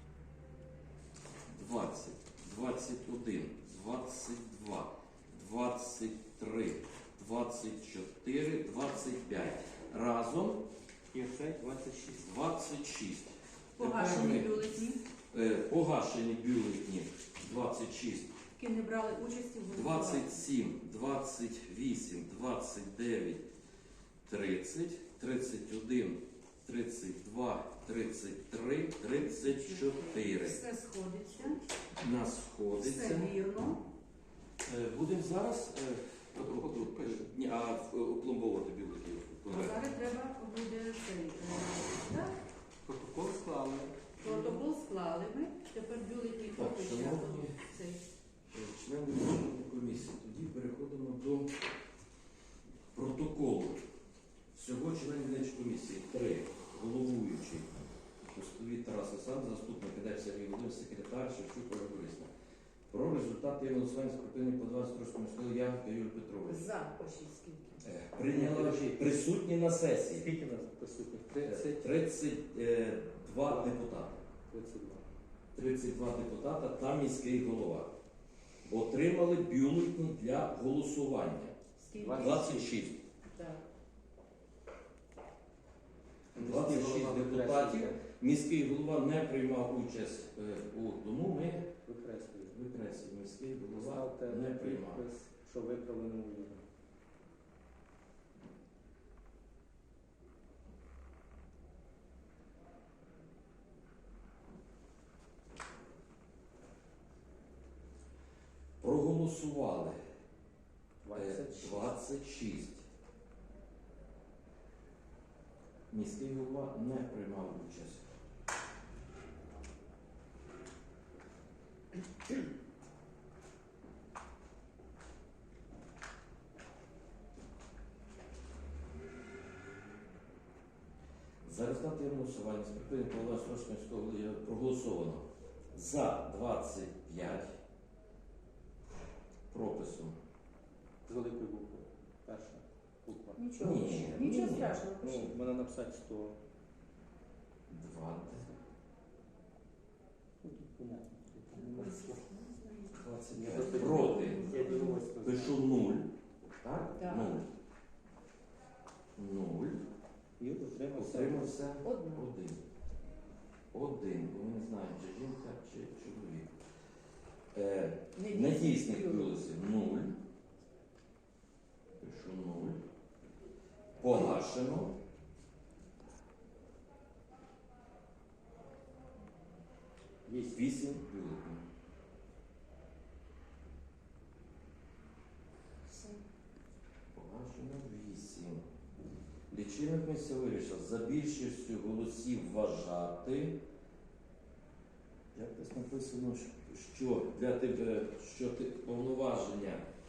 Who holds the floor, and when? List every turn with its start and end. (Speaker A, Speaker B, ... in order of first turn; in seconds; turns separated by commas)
Speaker A: 1.5-10.6, Speaker B: 11.1-12.3, Speaker A: 12.1-14.7, Speaker C: 13.8-15.0, Speaker A: 15.3-18.3, Speaker C: 18.6-20.4, Speaker A: 19.7-23.4, Speaker A: 24.2-30.6, Speaker C: 29.4-31.6, Speaker A: 31.5-33.3, Speaker C: 32.8-33.8, Speaker A: 34.6-40.1, Speaker B: 36.4-37.3, Speaker C: 39.5-42.4, Speaker B: 42.9-44.6, Speaker C: 44.2-48.0, Speaker A: 46.5-47.7, Speaker A: 48.5-51.5, Speaker A: 52.9-53.8, Speaker A: 54.5-57.7, Speaker A: 58.3-62.3, Speaker A: 62.9-66.7, Speaker C: 66.5-67.8, Speaker A: 67.8-70.3, Speaker B: 68.2-69.1, Speaker B: 70.1-71.8, Speaker A: 71.4-74.2, Speaker B: 73.4-73.8, Speaker B: 74.5-75.1, Speaker A: 75.5-77.9, Speaker A: 78.7-81.6, Speaker C: 81.8-82.5, Speaker B: 82.0-82.8, Speaker A: 82.1-83.0, Speaker C: 83.3-83.6, Speaker A: 86.3-91.7, Speaker B: 86.3-88.0, Speaker B: 91.8-92.6, Speaker A: 92.5-95.0, Speaker B: 93.7-96.6, Speaker A: 108.8-110.0, Speaker B: 111.0-111.9, Speaker A: 111.1-112.8, Speaker A: 115.9-118.1, Speaker A: 131.4-137.6, Speaker A: 139.5-140.2, Speaker B: 141.1-143.4, Speaker C: 143.4-145.3, Speaker A: 143.6-144.8, Speaker B: 145.0-146.4, Speaker A: 147.7-148.5, Speaker B: 150.4-152.2, Speaker C: 151.6-153.0, Speaker A: 152.9-154.5, Speaker B: 153.3-155.8, Speaker C: 153.5-155.0, Speaker A: 155.2-156.1, Speaker A: 156.6-157.5, Speaker C: 156.9-157.4, Speaker A: 159.2-159.8, Speaker B: 160.4-161.6, Speaker A: 160.9-162.6, Speaker C: 161.8-162.3, Speaker A: 163.7-166.5, Speaker A: 167.5-170.2, Speaker C: 168.2-169.4, Speaker A: 172.0-172.8, Speaker A: 174.0-175.0, Speaker B: 180.2-180.6, Speaker A: 180.4-181.7, Speaker A: 187.1-188.7, Speaker A: 189.5-193.6, Speaker A: 195.3-199.8